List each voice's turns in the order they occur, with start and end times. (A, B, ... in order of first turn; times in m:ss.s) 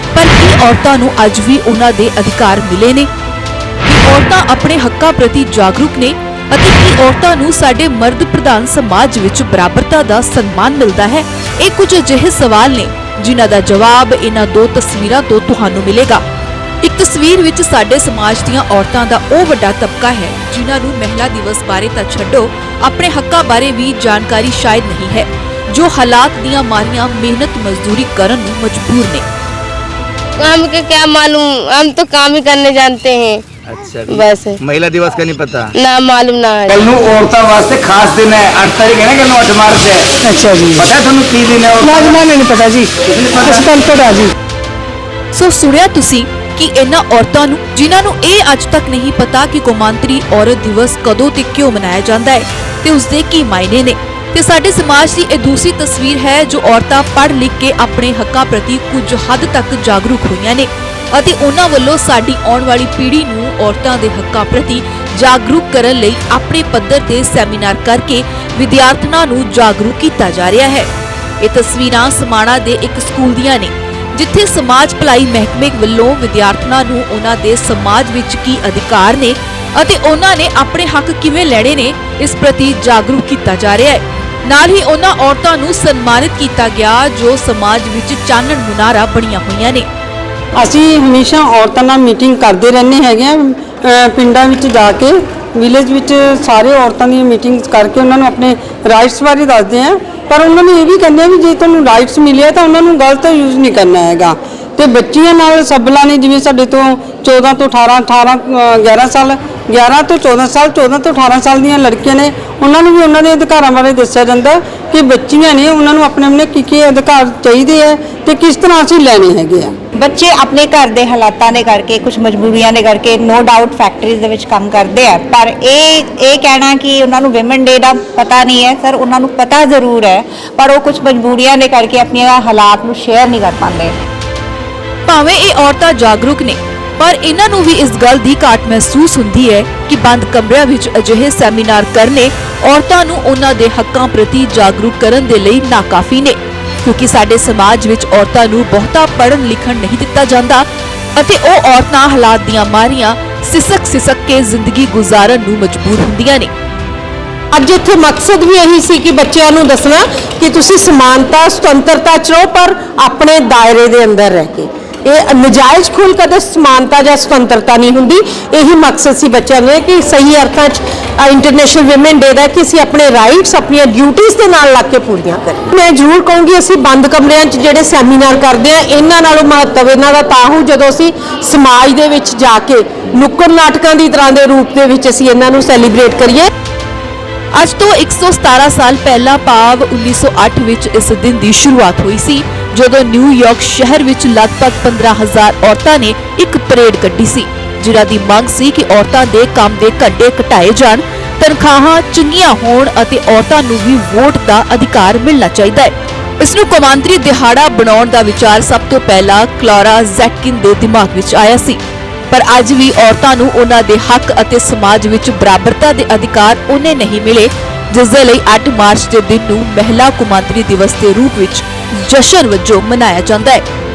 0:00.1-0:03.1 A
0:03.8-0:16.2 A
0:16.8-0:29.2 A
0:30.4-0:33.4 B
0:33.7-0:35.7 C
0:34.1-0:34.6 B
0:35.8-0:36.8 B
0:36.7-0:40.1 C
0:40.2-0:40.9 D
0:40.8-0:42.2 C
0:41.8-0:44.3 D
0:43.2-0:43.7 C
0:45.3-1:10.9 A
1:11.4-1:29.9 A
1:30.6-1:59.7 D
2:00.0-2:13.9 E
2:15.1-2:36.5 A
2:37.5-3:06.5 F
3:07.5-3:43.6 A